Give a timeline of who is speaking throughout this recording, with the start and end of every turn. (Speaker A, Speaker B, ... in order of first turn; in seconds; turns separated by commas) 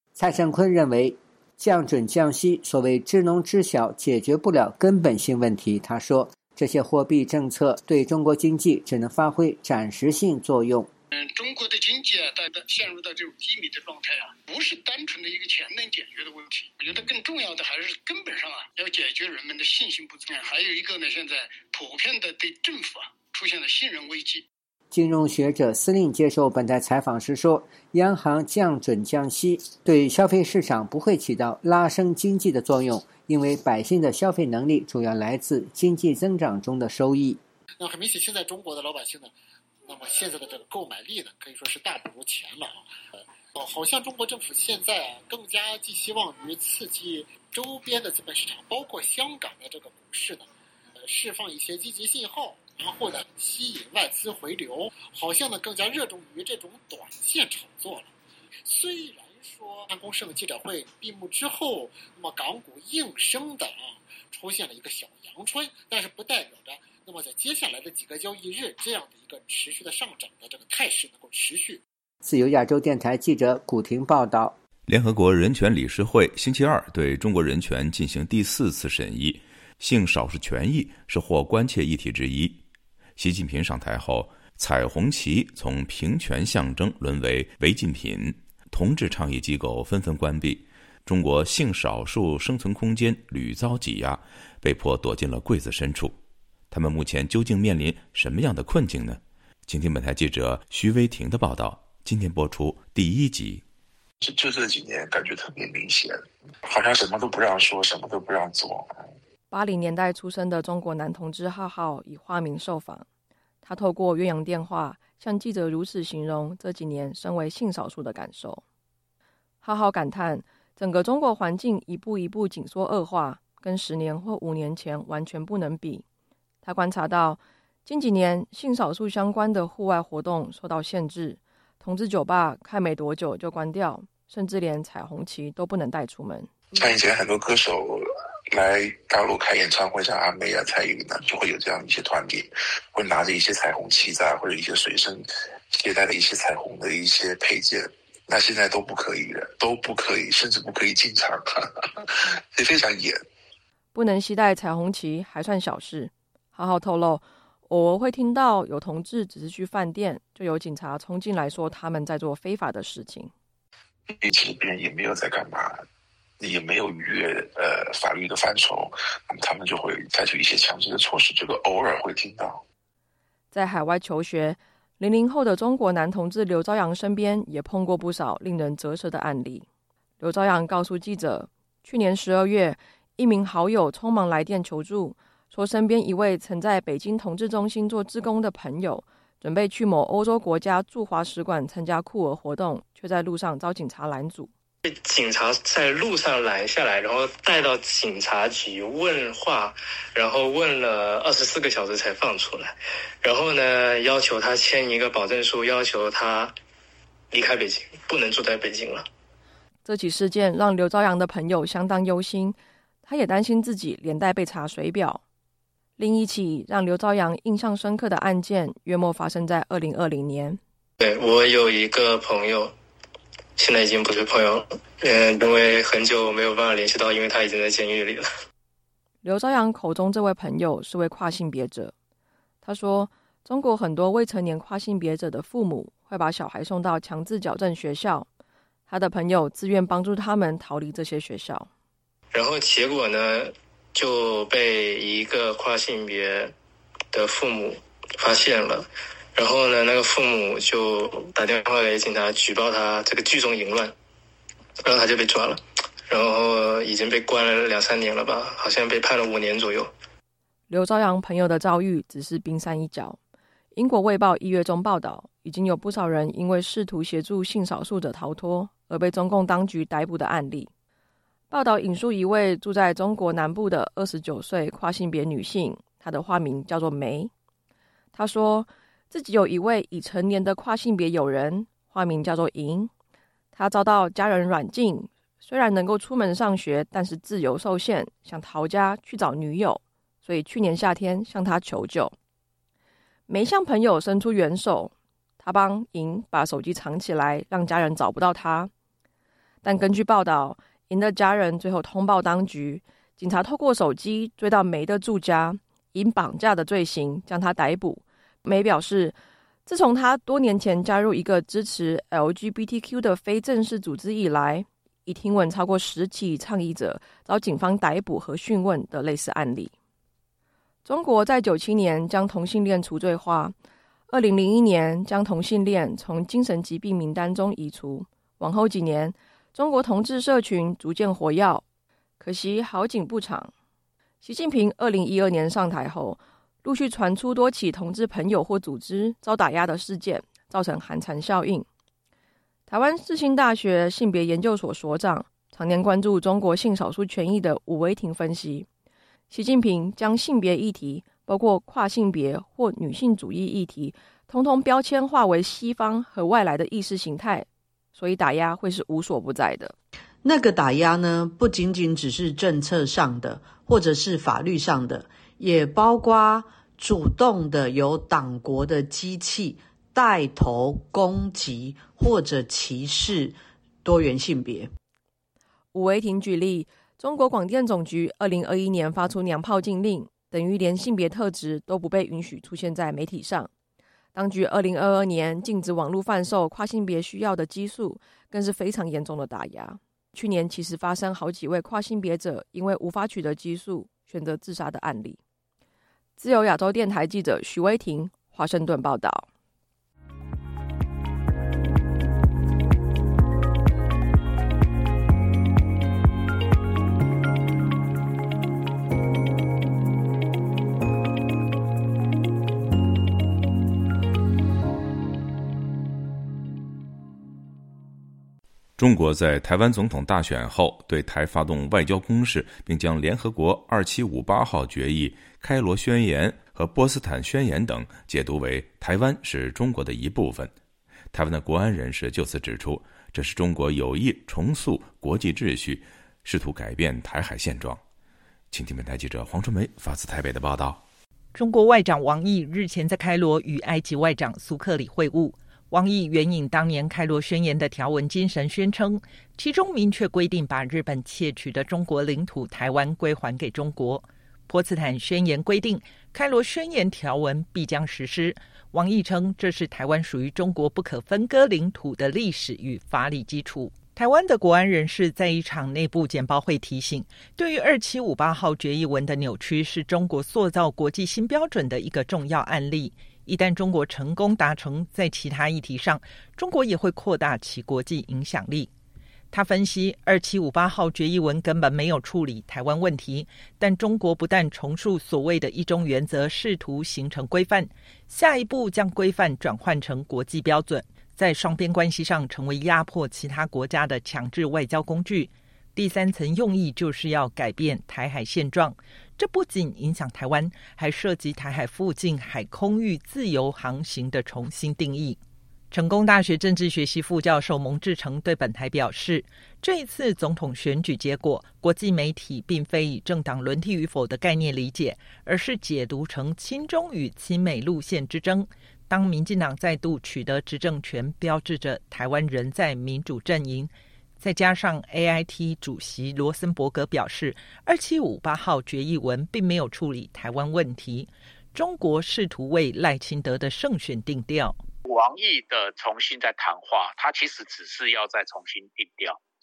Speaker A: 0.1-10.9, Speaker B: 11.2-24.5, Speaker A: 24.9-37.4, Speaker C: 37.8-39.3, Speaker C: 39.9-58.1, Speaker C: 58.6-71.8, Speaker A: 72.2-74.6, Speaker D: 74.9-82.6, Speaker D: 83.2-96.1, Speaker D: 96.7-103.6, Speaker E: 104.2-109.1, Speaker F: 109.5-113.0, Speaker F: 113.6-118.6, Speaker F: 119.6-126.0, Speaker F: 126.6-136.5, Speaker E: 136.7-153.2, Speaker F: 153.9-163.3, Speaker E: 164.1-165.8, Speaker E: 166.4-172.6, Speaker F: 173.5-179.7, Speaker F: 180.2-194.5, Speaker G: 194.9-206.5, Speaker G: 207.3-209.1, Speaker F: 209.8-215.2, Speaker F: 216.0-220.6, Speaker G: 221.0-222.7, Speaker G: 223.6-228.3, Speaker F: 229.2-231.9, Speaker F: 232.6-238.3, Speaker F: 238.9-241.7, Speaker G: 242.3-246.5, Speaker G: 247.1-253.9, Speaker G: 254.8-259.9, Speaker F: 260.7-263.2, Speaker F: 263.8-270.7, Speaker F: 271.5-277.3, Speaker F: 278.1-282.9, Speaker F: 283.6-292.1, Speaker F: 293.3-298.7, Speaker F: 299.6-309.1, Speaker F: 309.7-319.7, Speaker F: 320.9-323.6, Speaker F: 324.1-331.6, Speaker F: 332.2-333.5, Speaker F: 334.2-341.7, Speaker F: 342.7-348.7, Speaker F: 349.3-359.7, Speaker H: 360.2-374.7, Speaker F: 375.7-383.5, Speaker F: 384.1-395.2, Speaker F: 396.2-399.3, Speaker D: 418.8-430.5, Speaker D: 431.1-437.8, Speaker D: 438.5-440.8, Speaker I: 441.3-478.7, Speaker I: 479.3-505.2, Speaker I: 505.7-534.6, Speaker J: 534.9-539.2